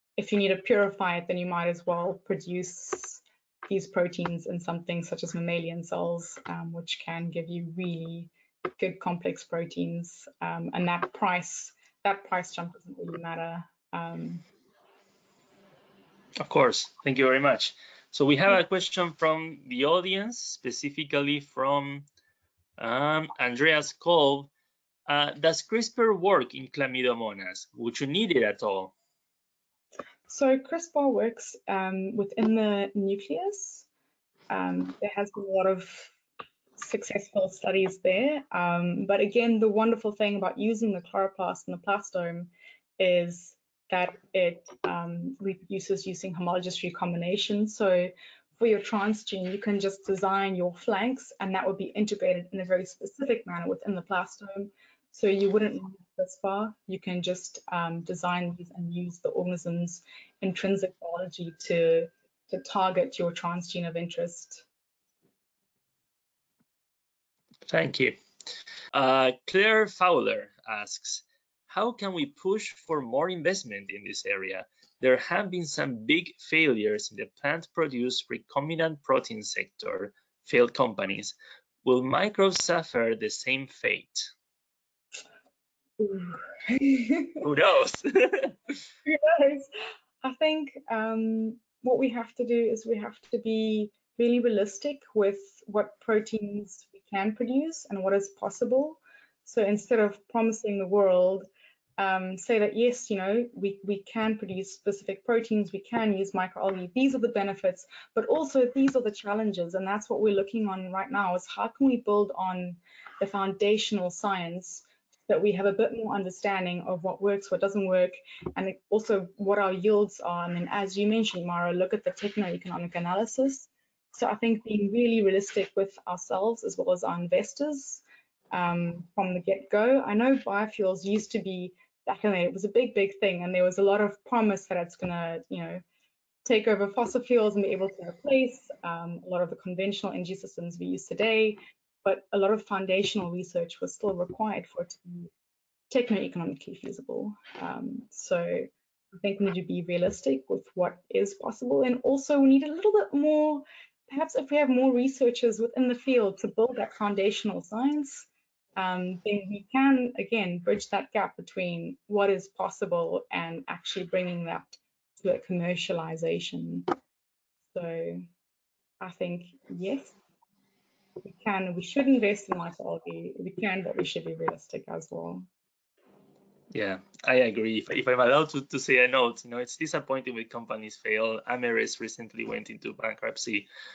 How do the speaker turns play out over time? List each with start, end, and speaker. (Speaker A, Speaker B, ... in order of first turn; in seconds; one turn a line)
Speaker A: 0.2-14.4
Speaker B: 16.4-22.1
Speaker B: 22.8-24.5
Speaker B: 25.1-28.9
Speaker A: 30.3-33.9
Speaker A: 34.5-36.1
Speaker A: 36.8-64.7
Speaker B: 67.7-68.2
Speaker B: 68.9-81.3
Speaker B: 81.8-84.3
Speaker A: 86.0-87.4
Speaker B: 87.4-88.7
Speaker A: 89.0-89.7
Speaker A: 90.2-101.5
Speaker A: 102.0-135.8
Speaker A: 136.4-145.3
Speaker A: 145.9-166.9
Speaker A: 167.7-168.2
Speaker A: 169.0-170.2
Speaker A: 171.2-175.5
Speaker B: 176.7-183.7